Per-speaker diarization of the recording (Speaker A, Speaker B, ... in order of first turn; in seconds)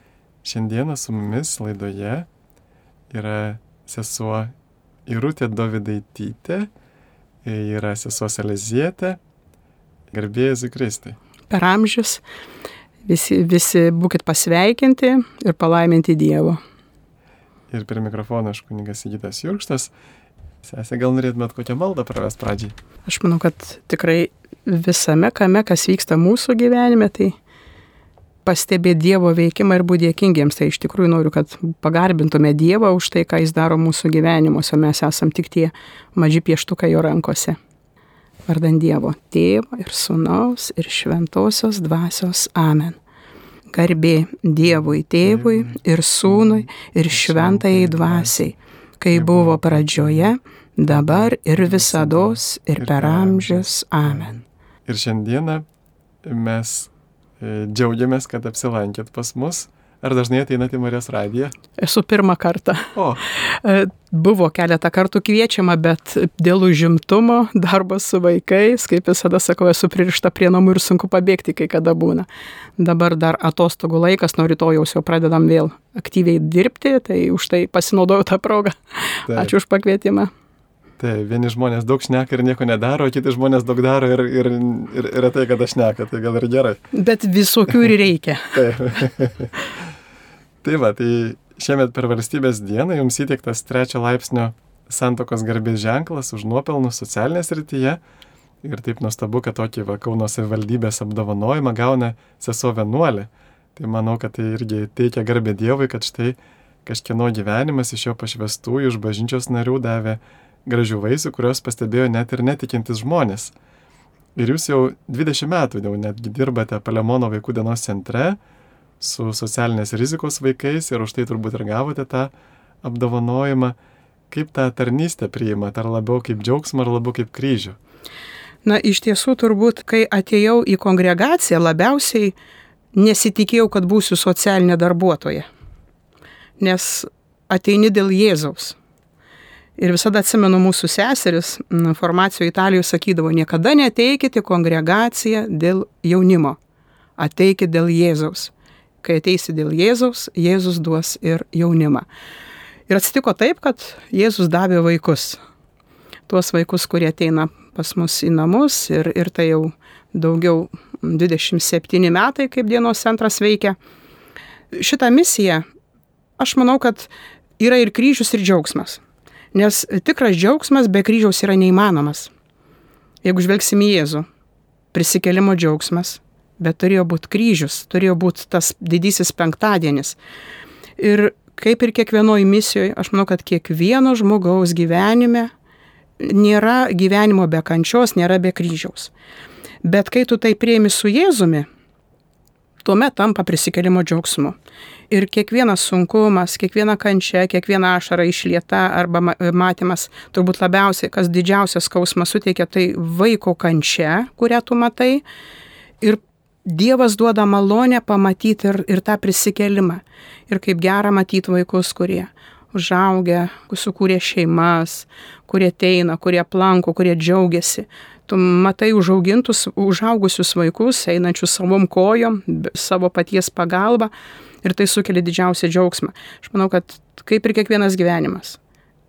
Speaker A: 0.4-2.3, 3.1-4.5, 5.1-6.7, 7.4-9.2, 10.1-11.2, 17.7-19.9, 20.6-22.8, 45.2-48.4, 49.1-50.3, 50.9-55.6, 56.2-61.5, 62.9-63.2, 79.3-79.5, 81.0-86.8, 88.5-89.5, 90.6-98.0, 98.6-113.5, 114.4-118.4, 119.0-122.3, 122.8-123.8, 124.3-127.8
Speaker B: 11.5-12.2, 13.1-16.6, 23.1-27.4, 28.4-37.6, 38.5-43.0, 43.7-54.4, 61.8-80.3, 86.9-88.6, 128.6-132.3, 132.9-135.5, 136.6-138.8, 139.8-146.6, 147.2-152.1, 152.9-155.4, 156.3-163.8, 164.7-165.6, 166.4-169.0, 169.5-172.3, 173.2-174.3, 174.9-180.2, 181.0-185.5, 186.2-189.1, 189.8-191.7, 192.8-194.6, 195.1-205.2, 206.0-224.1, 224.6-228.6